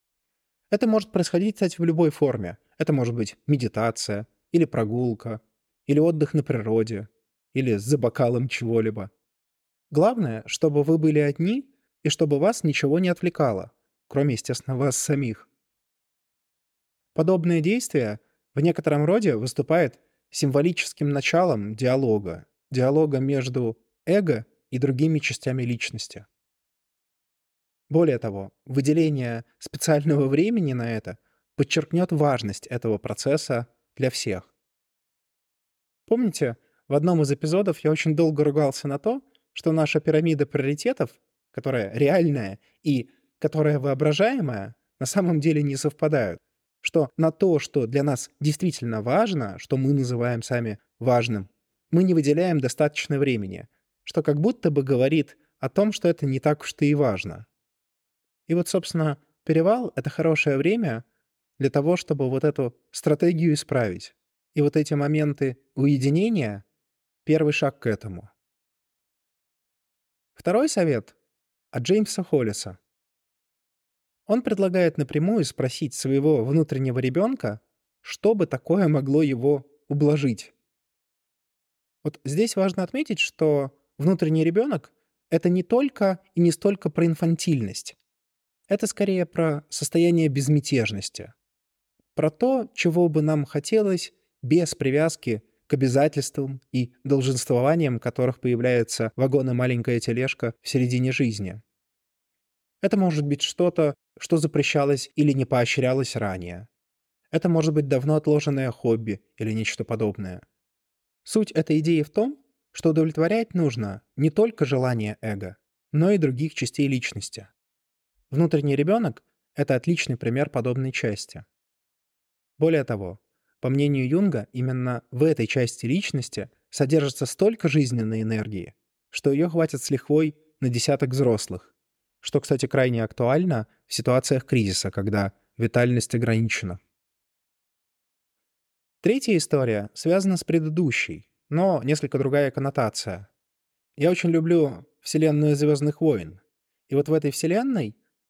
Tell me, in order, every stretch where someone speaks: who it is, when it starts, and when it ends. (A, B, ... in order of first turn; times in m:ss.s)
0:00.7-0:09.1 A
0:09.9-0:15.5 A
0:17.2-0:26.3 A
0:27.9-0:34.5 A
0:36.1-0:57.5 A
0:58.5-1:01.0 A
1:01.6-1:06.6 A
1:07.2-1:08.3 A
1:10.4-1:11.2 A
1:11.7-1:12.8 A
1:14.3-1:20.5 A
1:22.0-1:28.0 A
1:28.7-1:31.3 A
1:32.2-1:41.6 A
1:42.8-1:46.7 A
1:47.3-1:50.4 A
1:51.2-1:57.5 A
1:58.3-2:01.5 A
2:02.6-2:16.8 A
2:19.0-2:23.3 A
2:24.0-2:28.0 A